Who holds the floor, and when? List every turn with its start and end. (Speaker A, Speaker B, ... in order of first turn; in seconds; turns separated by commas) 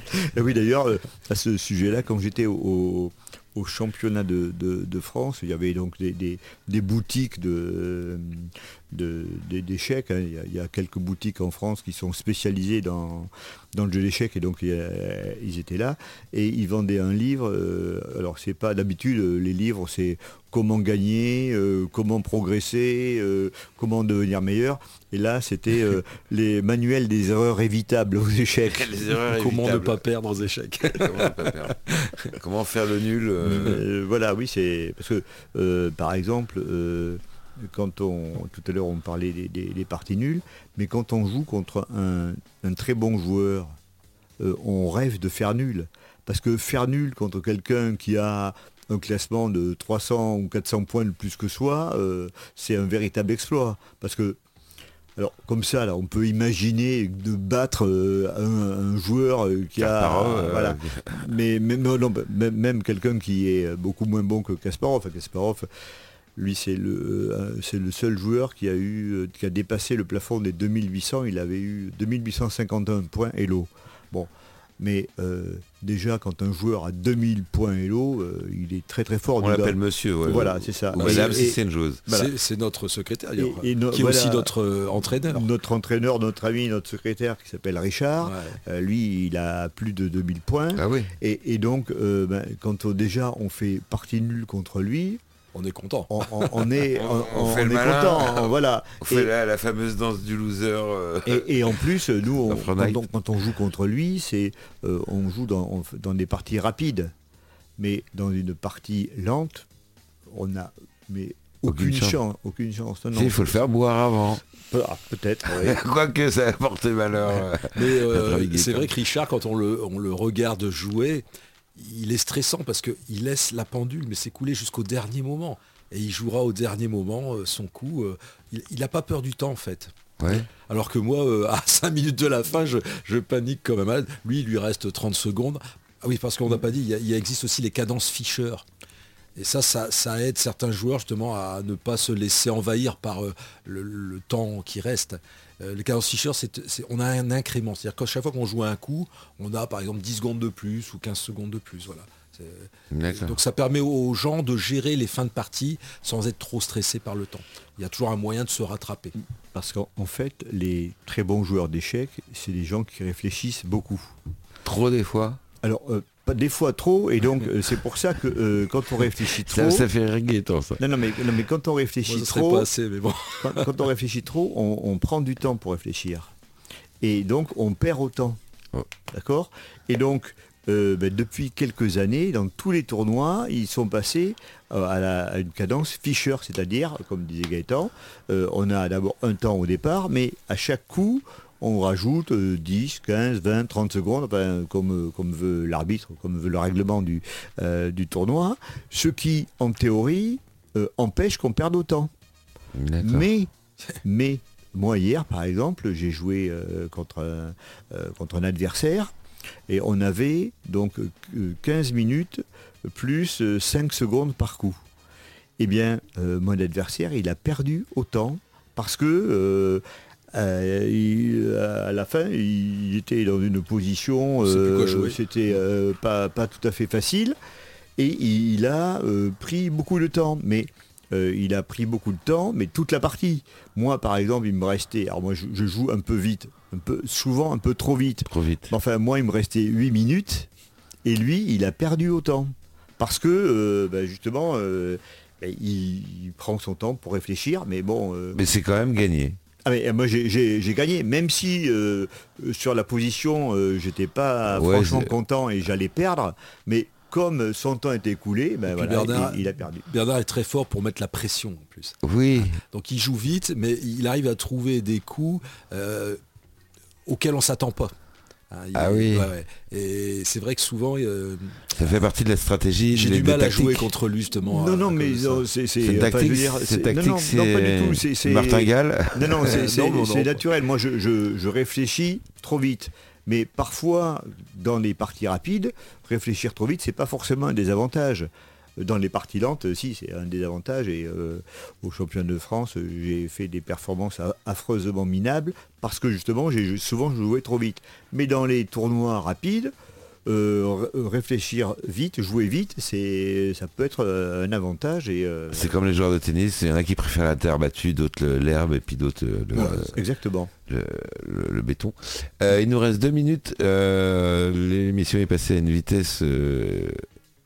Speaker A: 0.1-29.0, Speaker B: 28.7-30.0, Speaker C: 29.2-32.4, Speaker B: 30.9-31.8, Speaker B: 32.3-33.9, Speaker A: 33.4-43.7, Speaker A: 44.4-54.4, Speaker A: 55.2-65.7, Speaker B: 59.8-61.3, Speaker A: 66.4-82.3, Speaker B: 79.4-82.0, Speaker C: 81.0-81.4, Speaker C: 82.1-85.5, Speaker A: 83.4-84.5, Speaker A: 85.2-95.2, Speaker C: 88.2-88.6, Speaker B: 90.8-91.1, Speaker C: 95.5-96.8, Speaker A: 96.1-99.3, Speaker B: 96.9-101.8, Speaker A: 101.3-107.1, Speaker B: 102.4-103.0, Speaker A: 107.8-109.7, Speaker A: 110.3-113.6, Speaker B: 111.7-112.2, Speaker B: 113.1-114.4, Speaker A: 114.6-115.8, Speaker B: 115.5-118.9, Speaker C: 117.7-121.2, Speaker C: 121.8-138.6, Speaker B: 130.2-130.5, Speaker C: 139.4-159.2, Speaker B: 152.9-153.4, Speaker A: 159.5-164.1, Speaker B: 164.6-165.4, Speaker A: 165.6-169.9, Speaker B: 169.3-170.8, Speaker A: 170.8-172.7, Speaker C: 172.1-173.8, Speaker A: 173.4-176.3, Speaker A: 177.0-178.4, Speaker A: 179.1-202.1, Speaker B: 202.8-203.3, Speaker A: 203.0-203.5, Speaker A: 204.0-209.1, Speaker A: 209.7-214.8, Speaker A: 215.6-227.4, Speaker C: 224.4-225.2, Speaker A: 228.0-240.5, Speaker B: 238.3-238.7, Speaker A: 241.0-248.4, Speaker B: 248.3-249.4, Speaker A: 249.6-259.9, Speaker B: 254.5-255.1, Speaker C: 258.7-266.2, Speaker B: 262.0-262.6, Speaker C: 267.1-267.9, Speaker C: 268.5-271.8, Speaker B: 268.8-269.3, Speaker B: 271.7-273.9, Speaker C: 272.9-275.4, Speaker A: 274.5-299.7, Speaker B: 275.8-279.6, Speaker C: 279.4-280.4, Speaker A: 300.3-305.8, Speaker B: 305.5-310.0, Speaker A: 309.5-310.5, Speaker B: 310.7-317.1